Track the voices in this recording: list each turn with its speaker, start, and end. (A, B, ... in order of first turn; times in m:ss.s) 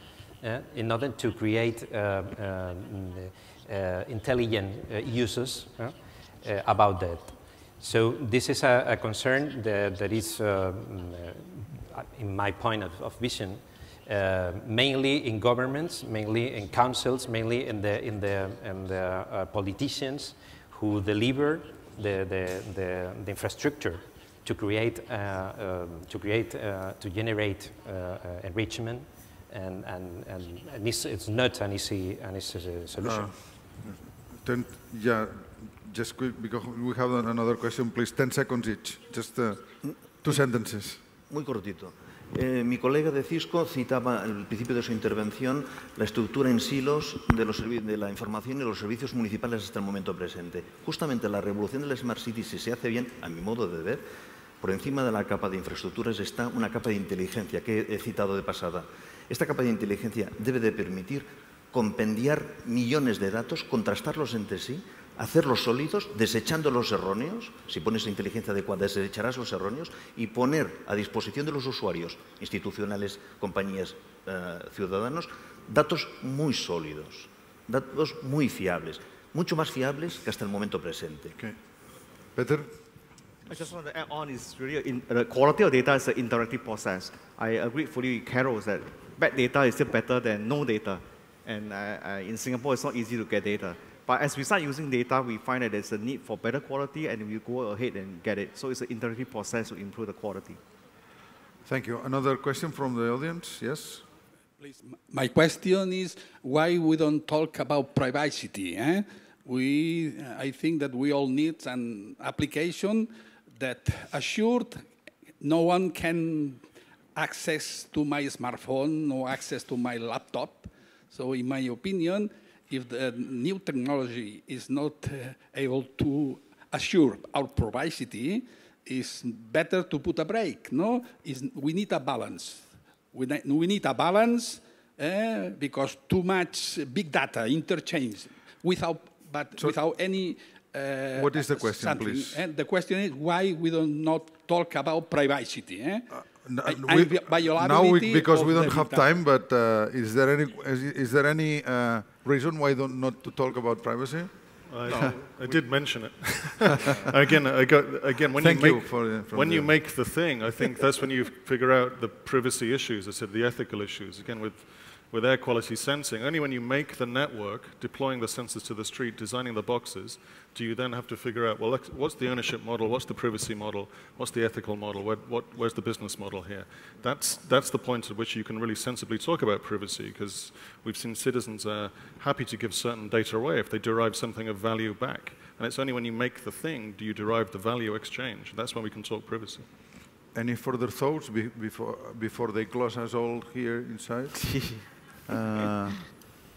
0:00.4-0:33.5 A
0:33.0-0:39.6 B
0:39.9-0:40.3 C
0:40.2-0:41.0 B
0:41.3-0:54.0 C
0:54.6-1:21.4 C
1:22.3-1:22.7 B
1:23.5-1:40.6 D
1:41.6-1:44.0 B
1:44.6-1:54.9 E
1:55.4-2:26.1 E
2:21.2-2:22.4 B
2:26.1-2:34.3 B
2:26.6-2:29.1 E
2:34.7-3:09.6 F
2:34.8-2:35.2 B
2:36.7-2:37.2 B
2:38.4-2:39.8 B
3:10.3-3:16.1 B